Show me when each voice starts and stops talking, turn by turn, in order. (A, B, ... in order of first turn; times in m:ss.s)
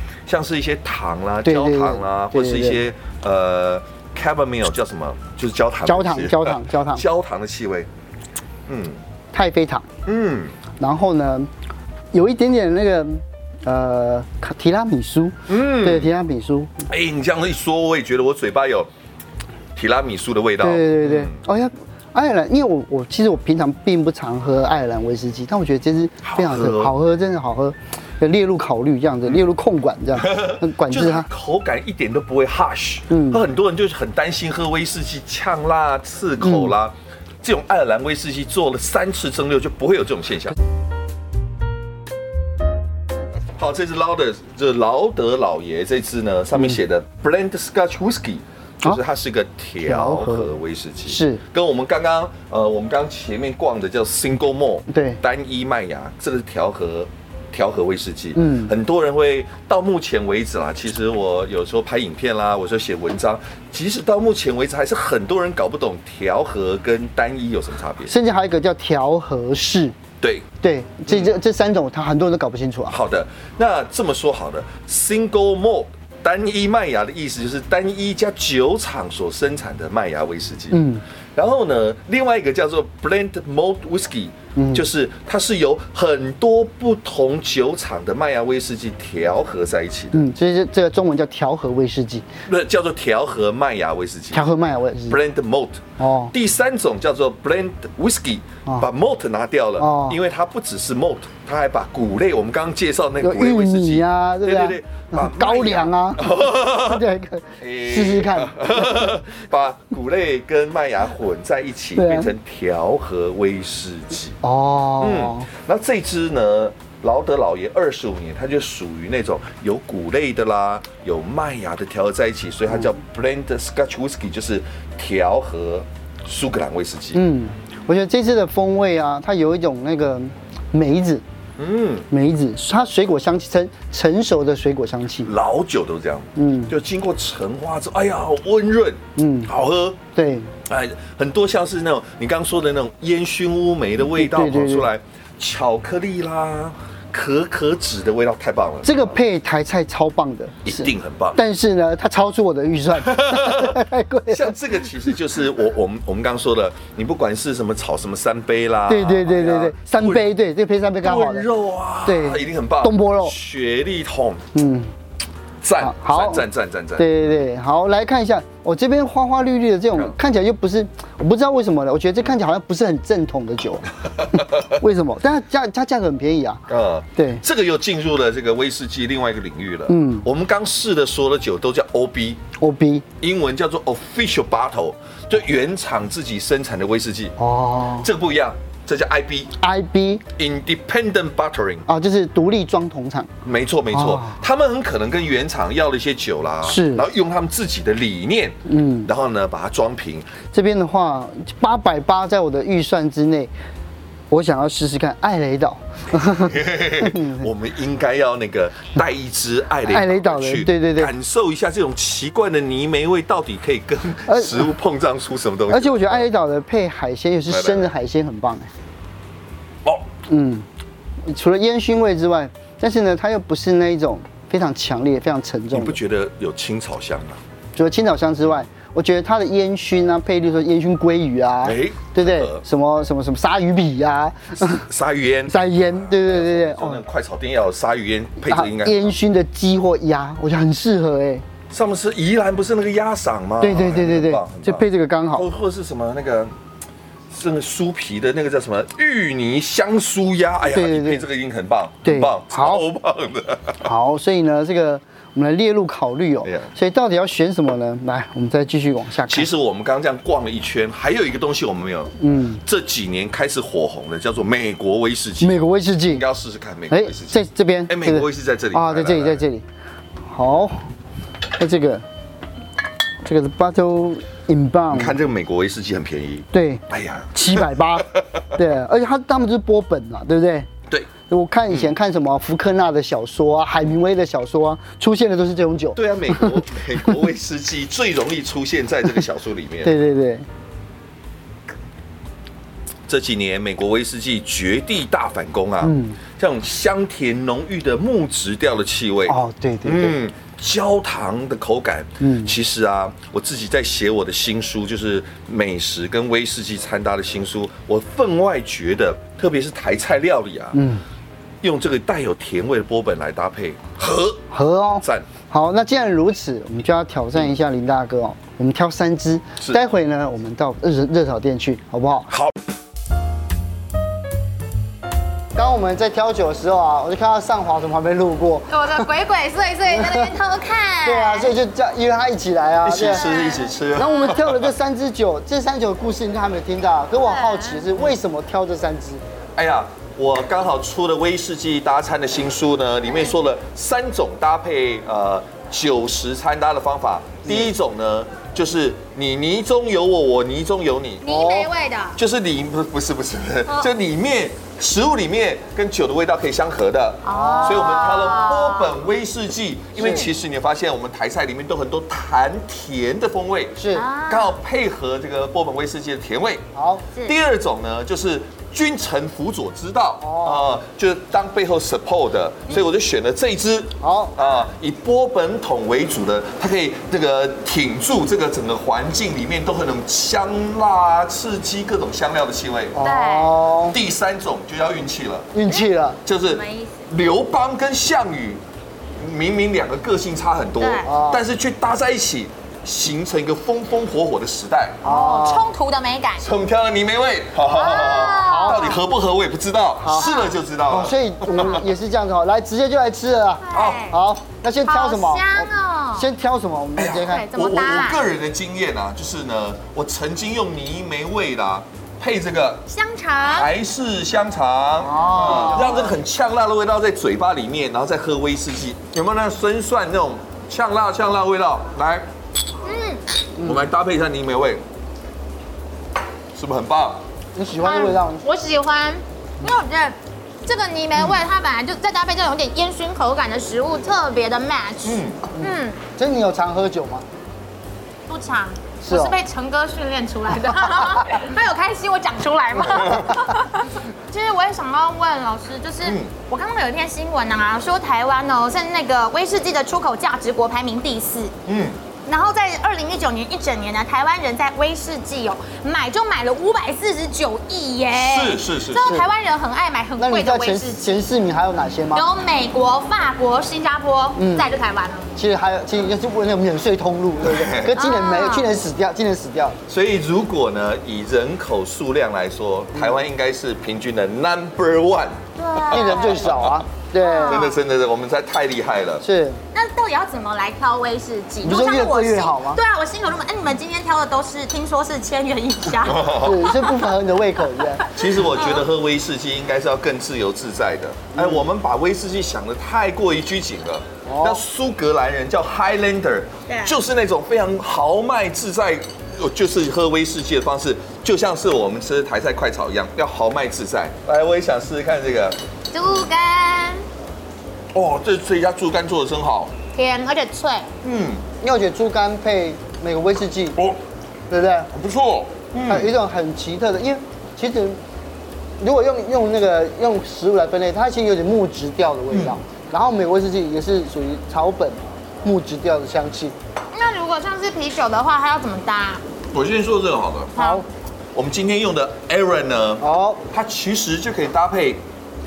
0:00.3-0:07.9 A
0:01.4-0:02.8 B
0:05.8-0:07.0 B
0:08.7-0:09.0 A
0:09.3-0:09.8 B
0:10.0-0:10.5 A
0:10.8-0:11.5 B
0:12.1-0:16.8 B
0:15.5-0:16.1 A
0:16.9-0:18.9 A
0:19.7-0:21.4 A
0:20.6-0:31.3 B
0:26.2-0:27.0 A
0:30.1-0:40.5 A
0:33.1-0:33.4 B
0:36.4-0:36.7 B
0:43.6-1:08.1 A
0:49.8-0:50.5 B
0:51.1-0:51.4 B
0:54.9-0:55.2 B
0:58.4-0:58.7 B
1:08.1-1:10.0 B
1:10.2-1:10.5 A
1:10.6-1:13.0 B
1:11.1-1:11.3 A
1:12.9-1:30.3 A
1:20.7-1:21.0 B
1:24.5-1:24.8 B
1:30.1-1:32.2 B
1:32.4-1:34.5 A
1:34.3-1:35.2 B
1:35.1-1:47.0 A
1:36.0-1:36.3 B
1:39.8-1:40.2 B
1:43.2-1:49.2 B
1:47.6-1:54.4 A
1:52.0-1:52.3 B
1:54.4-1:55.5 B
1:55.0-2:07.2 A
2:07.1-2:11.2 B
2:11.6-2:12.1 A
2:12.1-2:15.3 B
2:15.2-2:20.0 A
2:16.3-2:16.7 B
2:19.2-2:19.5 B
2:20.1-2:20.5 B
2:20.7-2:29.2 A
2:24.1-2:24.9 B
2:28.8-2:34.5 B
2:30.6-2:31.4 A
2:32.9-2:40.3 A
2:38.9-2:41.5 B
2:41.0-2:44.4 A
2:42.0-2:43.3 B
2:44.5-2:44.9 B
2:45.6-2:47.1 A
2:45.8-2:46.4 B
2:47.0-2:57.4 B
2:56.7-3:02.4 A
2:59.9-3:00.2 B
3:02.6-3:03.1 B
3:03.2-3:07.3 A
3:07.4-3:08.1 B
3:08.0-3:09.5 A
3:09.6-3:10.2 B
3:10.3-3:11.8 A
3:11.9-3:13.4 B
3:13.4-3:20.3 A
3:13.9-3:14.4 B
3:16.6-3:17.0 B
3:18.6-3:19.1 B
3:20.5-3:23.5 B
3:24.3-3:27.5 B
3:26.2-3:36.3 A
3:29.8-3:31.1 B
3:34.3-3:34.7 B
3:35.7-3:38.7 B
3:37.5-3:37.9 A
3:40.3-3:40.6 B
3:41.2-3:46.0 B
3:45.7-3:47.4 A
3:47.7-3:54.8 B
3:51.6-3:52.6 A
3:54.6-3:59.1 A
3:55.5-3:57.0 B
3:58.4-4:01.4 B
4:01.7-4:06.5 A
4:03.6-4:05.5 B
4:07.3-4:13.9 A
4:10.6-4:11.2 B
4:12.0-4:12.8 B
4:13.8-4:19.5 B
4:16.4-4:16.7 A
4:19.3-4:29.4 A
4:22.2-4:22.6 B
4:25.4-4:26.2 B
4:26.9-4:29.6 B
4:30.3-4:30.8 B
4:31.6-4:32.0 B
4:33.2-4:35.2 B
4:34.9-4:38.2 A
4:36.5-4:40.7 B
4:41.3-4:46.6 B
4:46.0-4:49.9 A
4:49.8-4:50.4 B
4:53.1-5:10.8 A
4:55.8-4:56.2 B
4:59.3-5:00.2 B
5:02.2-5:02.5 B
5:10.7-5:11.0 B
5:11.6-5:14.4 A
5:14.5-5:22.3 B
5:15.0-5:15.3 A
5:25.5-5:29.0 B
5:28.7-5:31.6 C
5:29.9-5:30.4 B
5:31.0-5:33.3 B
5:32.8-5:34.7 A
5:33.0-5:33.7 C
5:33.9-5:39.2 B
5:37.1-5:37.9 C
5:39.6-5:51.2 A
5:47.4-5:47.7 B
5:51.2-5:52.2 C
5:51.2-5:51.7 B
5:52.1-6:03.8 A
5:57.2-5:59.0 C
5:57.3-5:58.1 B
6:00.0-6:00.3 B
6:03.8-6:04.1 B
6:03.9-6:04.6 C
6:04.3-6:06.6 A
6:06.7-6:07.0 B
6:07.2-6:23.0 A
6:10.2-6:10.7 B
6:14.0-6:14.4 B
6:22.9-6:24.0 B
6:23.0-6:23.6 C
6:23.8-6:25.5 A
6:25.5-6:26.2 B
6:25.6-6:27.0 C
6:26.2-6:28.6 A
6:29.2-6:35.0 A
6:30.8-6:31.1 C
6:31.0-6:31.4 B
6:35.0-6:35.7 B
6:35.0-6:36.4 C
6:36.4-6:41.8 A
6:37.7-6:39.0 C
6:38.4-6:38.9 B
6:40.0-6:40.3 B
6:40.1-6:40.6 C
6:40.9-6:47.7 B
6:43.6-6:44.2 C
6:43.7-6:44.0 A
6:44.8-6:46.3 C
6:47.0-6:52.8 A
6:47.2-6:48.2 C
6:52.9-6:53.7 C
6:53.4-7:02.3 A
6:55.0-6:56.2 B
7:02.8-7:03.2 C
7:03.6-7:04.8 A
7:03.6-7:03.8 B
7:06.5-7:07.2 A
7:07.5-7:08.4 B
7:07.8-7:16.0 C
7:15.0-7:15.5 A
7:15.6-7:17.3 B
7:18.3-7:31.5 C
7:19.0-7:19.4 B
7:26.0-7:26.3 A
7:31.6-7:32.0 A
7:32.2-7:41.2 C
7:38.1-7:39.2 A
7:39.0-7:39.2 B
7:40.2-7:42.3 B
7:42.1-7:45.3 C
7:44.4-7:44.7 B
7:45.3-7:49.8 B
7:47.4-7:48.0 A
7:47.9-7:48.8 C
7:49.9-7:55.4 A
7:52.9-7:53.2 B
7:55.6-7:57.7 C
7:55.9-7:56.7 A
7:55.9-7:57.7 B
7:57.5-7:59.2 A
7:59.2-7:59.6 B
7:59.7-8:07.0 C
8:01.6-8:02.8 B
8:06.0-8:06.7 A
8:06.3-8:08.1 B
8:08.0-8:08.8 C
8:08.1-8:25.6 A
8:11.3-8:11.6 B
8:14.2-8:14.6 B
8:16.7-8:17.0 C
8:25.9-8:27.0 C
8:27.9-8:29.7 A
8:29.9-8:30.9 C
8:31.0-8:31.4 A
8:31.6-8:33.8 B
8:34.5-8:34.9 B
8:34.9-8:36.1 A
8:35.9-8:38.0 B
8:38.8-8:46.5 B
8:42.3-8:42.6 A
8:46.9-8:49.2 C
8:49.5-8:50.5 A
8:50.6-8:50.8 C
8:50.6-8:50.8 B
8:51.3-8:55.0 A
8:53.0-8:53.4 B